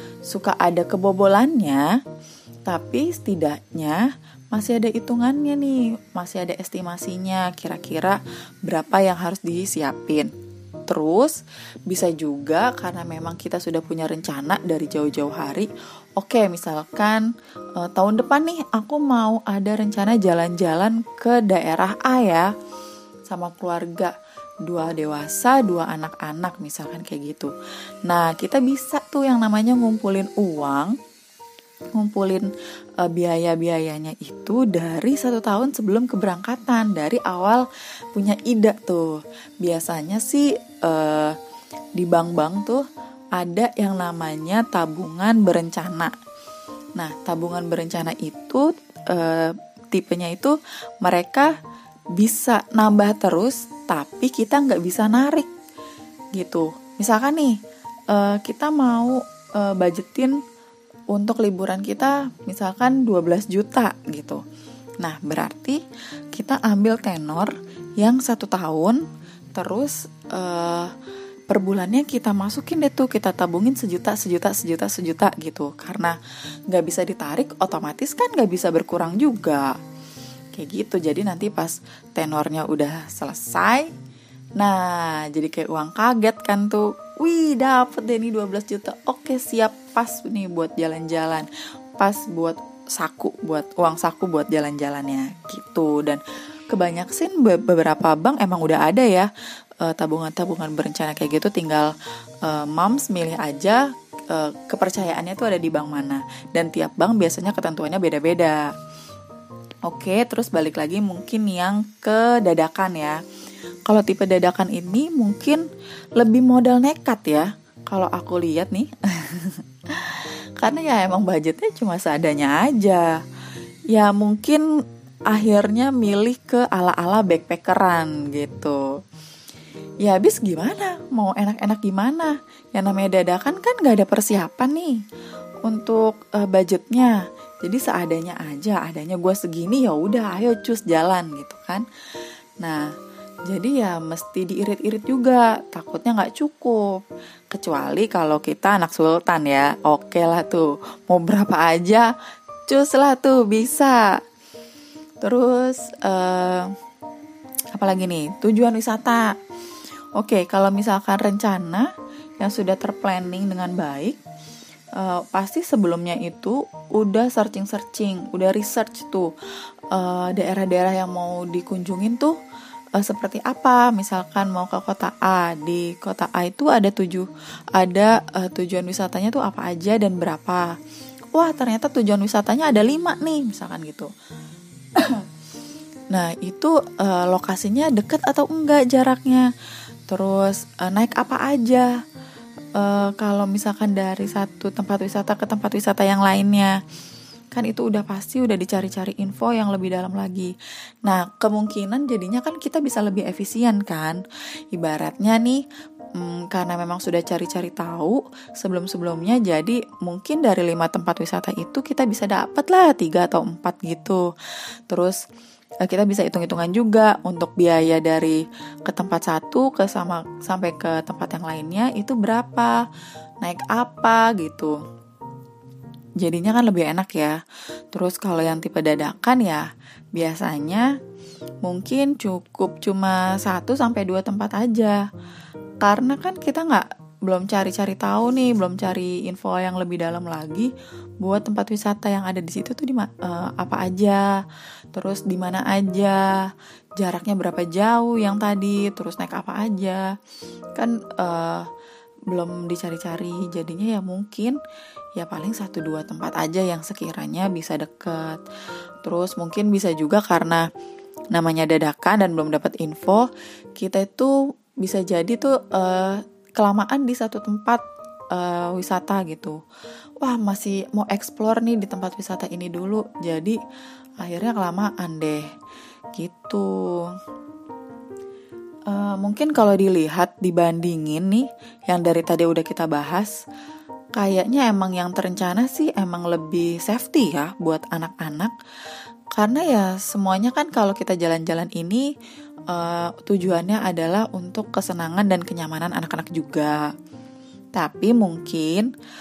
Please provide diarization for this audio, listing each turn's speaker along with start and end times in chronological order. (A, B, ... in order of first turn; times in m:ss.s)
0:00.3-0:01.9 A
0:02.7-0:10.3 A
0:10.9-0:22.5 A
0:23.3-0:24.1 A
0:24.6-0:27.5 A
0:28.0-0:31.0 A
0:32.0-0:32.5 A
0:33.0-0:41.4 A
0:42.0-0:42.8 A
0:43.4-0:46.1 A
0:47.0-0:51.6 A
0:52.2-0:55.5 A
0:56.4-0:57.6 A
0:58.1-1:00.4 A
1:01.1-1:04.4 A
1:05.0-1:05.8 A
1:06.3-1:09.0 A
1:09.6-1:11.0 A
1:11.5-1:16.2 A
1:16.7-1:19.8 A
1:20.5-1:23.9 A
1:24.6-1:39.3 A
1:39.8-1:48.7 A
1:49.9-1:53.2 A
1:53.9-1:55.7 A
1:56.2-2:03.2 A
2:03.9-2:04.6 A
2:05.3-2:09.0 A
2:10.0-2:15.0 A
2:15.6-2:21.9 A
2:22.6-2:22.9 A
2:23.5-2:32.1 A
2:32.7-2:34.2 A
2:35.2-2:36.7 A
2:37.7-2:39.3 A
2:40.2-2:44.2 A
2:45.0-2:49.3 A
2:49.9-2:52.4 A
2:53.0-3:00.7 A
3:01.3-3:04.1 A
3:05.0-3:05.3 A
3:06.1-3:09.5 A
3:10.1-3:11.9 A
3:12.8-3:16.8 A
3:17.5-3:20.5 A
3:21.0-3:25.6 A
3:26.2-3:34.3 A
3:34.9-3:35.2 A
3:35.8-3:42.9 A
3:43.4-3:44.8 A
3:46.2-3:47.4 A
3:47.9-3:51.0 A
3:51.6-3:55.0 A
3:55.8-4:00.7 A
4:01.2-4:04.3 A
4:04.9-4:10.1 A
4:10.8-4:11.7 A
4:12.3-4:14.6 A
4:15.2-4:18.4 A
4:19.0-4:20.7 A
4:21.3-4:29.6 A
4:30.2-4:33.6 A
4:34.2-4:35.4 A
4:36.2-4:37.2 A
4:38.9-4:43.4 A
4:44.2-4:48.5 A
4:49.4-4:52.1 A
4:52.7-4:56.9 A
4:57.8-4:58.9 A